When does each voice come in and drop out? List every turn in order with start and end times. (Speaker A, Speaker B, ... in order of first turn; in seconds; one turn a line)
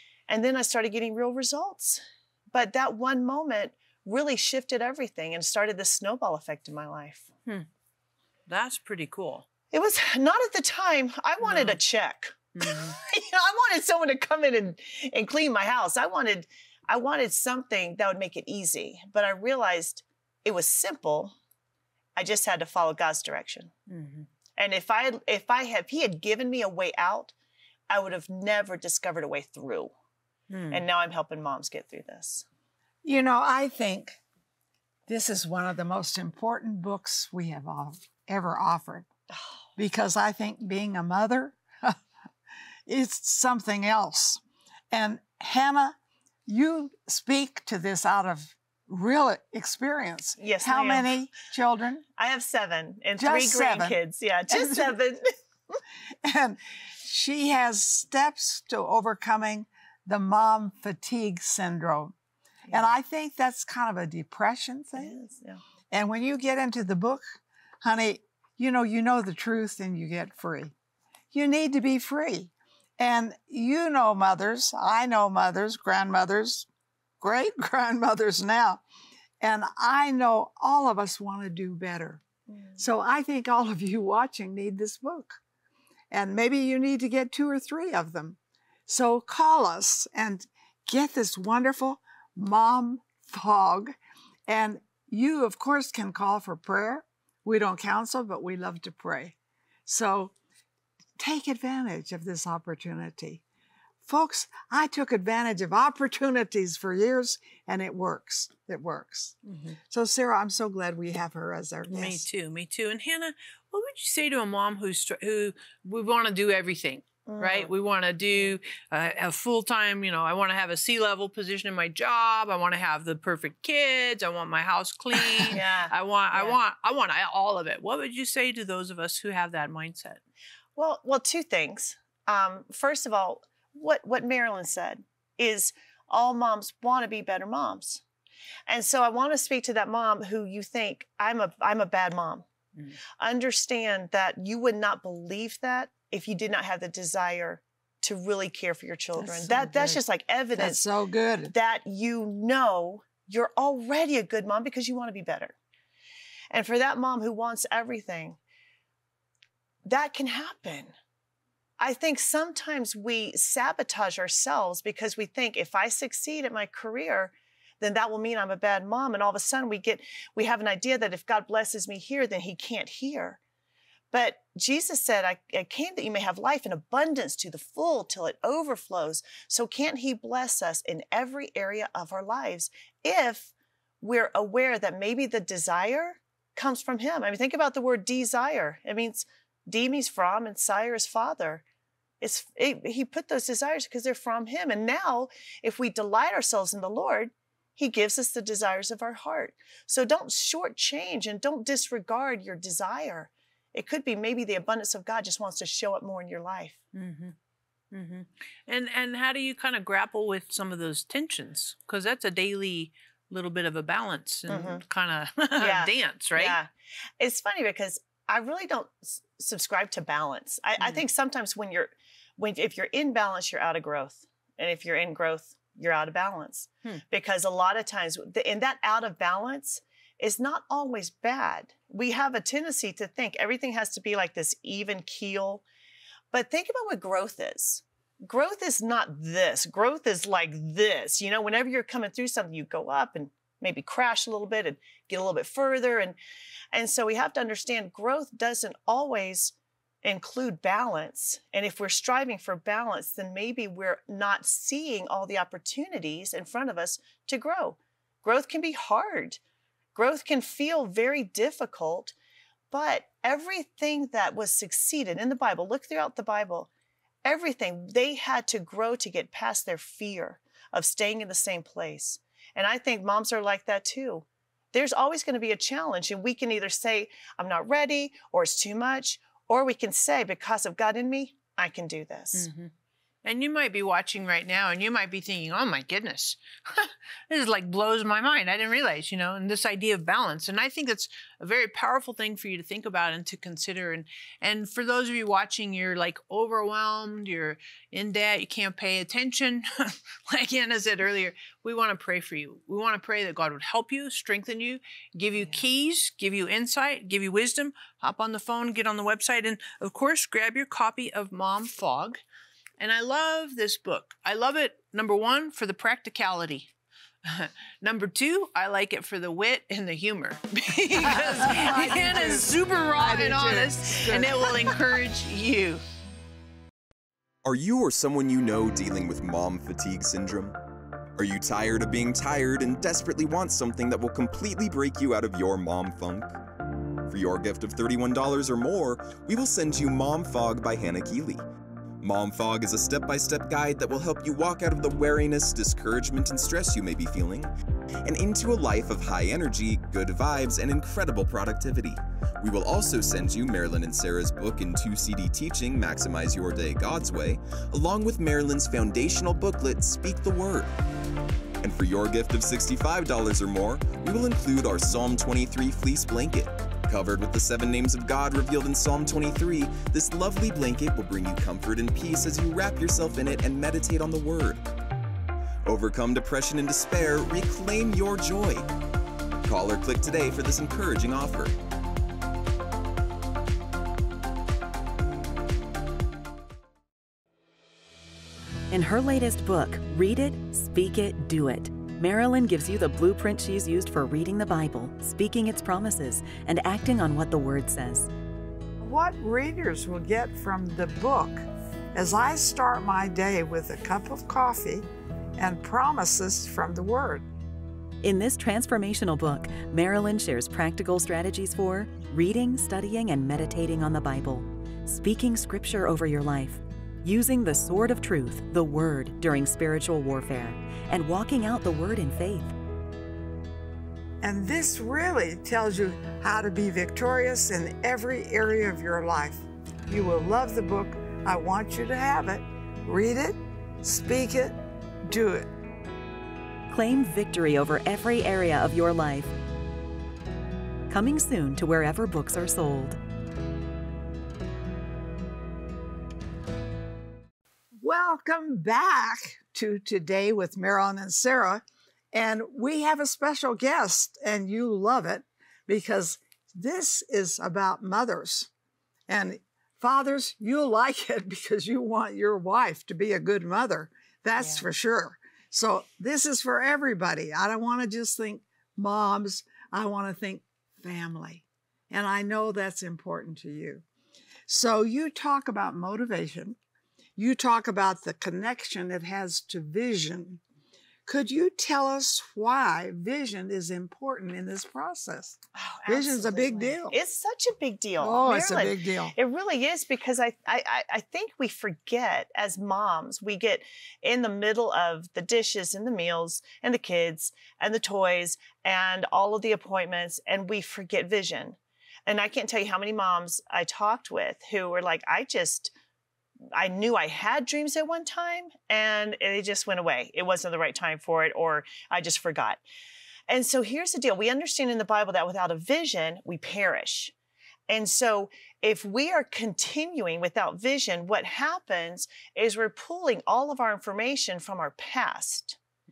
Speaker A: 0.3-7.3
Speaker B: 8.5-9.4
Speaker A: 9.7-21.3
Speaker B: 11.4-11.8
Speaker B: 12.6-12.9
Speaker A: 22.1-23.7
Speaker B: 23.9-24.3
Speaker A: 24.6-27.3
Speaker A: 27.9-29.9
Speaker B: 30.5-30.8
Speaker A: 30.7-32.5
Speaker C: 33.0-34.2
Speaker C: 35.1-39.1
Speaker C: 39.8-42.0
Speaker C: 42.9-52.0
Speaker A: 50.4-51.1
Speaker A: 52.2-55.3
Speaker C: 53.2-54.0
Speaker C: 54.5-54.9
Speaker C: 56.2-62.1
Speaker C: 62.7-65.2
Speaker A: 65.0-65.6
Speaker C: 65.9-70.7
Speaker C: 71.3-76.7
Speaker C: 77.2-78.8
Speaker C: 79.4-82.2
Speaker A: 82.5-82.8
Speaker C: 82.8-85.4
Speaker C: 86.1-93.9
Speaker C: 94.5-99.3
Speaker C: 99.8-100.3
Speaker C: 101.2-103.4
Speaker C: 104.0-109.4
Speaker C: 109.9-112.2
Speaker B: 111.9-130.2
Speaker A: 117.2-117.7
Speaker A: 125.5-126.6
Speaker A: 130.8-138.0
Speaker A: 138.7-142.4
Speaker A: 143.2-150.8
Speaker C: 149.2-150.0
Speaker C: 150.5-151.5
Speaker A: 151.5-155.5
Speaker A: 156.5-158.4
Speaker A: 159.8-160.9
Speaker A: 161.8-173.4
Speaker A: 174.1-191.6
Speaker A: 192.2-206.8
Speaker B: 206.9-207.3
Speaker B: 207.9-216.6
Speaker A: 214.5-214.8
Speaker A: 215.6-235.6
Speaker A: 236.3-246.2
Speaker A: 246.7-259.4
Speaker A: 259.9-262.1
Speaker A: 262.7-266.7
Speaker A: 267.2-282.5
Speaker B: 282.3-282.7
Speaker B: 283.2-312.2
Speaker B: 312.8-316.7
Speaker B: 317.2-325.8
Speaker C: 321.0-324.8
Speaker D: 327.4-330.5
Speaker D: 331.2-336.4
Speaker D: 337.1-341.4
Speaker D: 342.0-347.5
Speaker D: 348.0-360.7
Speaker D: 361.6-374.6
Speaker D: 375.6-378.7
Speaker D: 379.4-381.5
Speaker E: 388.7-398.1
Speaker C: 398.8-407.2
Speaker E: 408.0-422.5
Speaker C: 424.2-435.5
Speaker E: 436.7-439.3
Speaker E: 440.9-443.0
Speaker C: 447.8-458.5
Speaker C: 459.1-473.8
Speaker A: 464.4-464.6
Speaker C: 474.5-476.6
Speaker C: 477.2-480.4
Speaker C: 481.1-487.0
Speaker A: 485.5-505.7
Speaker C: 488.0-489.1
Speaker A: 506.5-512.6
Speaker A: 513.3-517.1
Speaker A: 517.7-525.6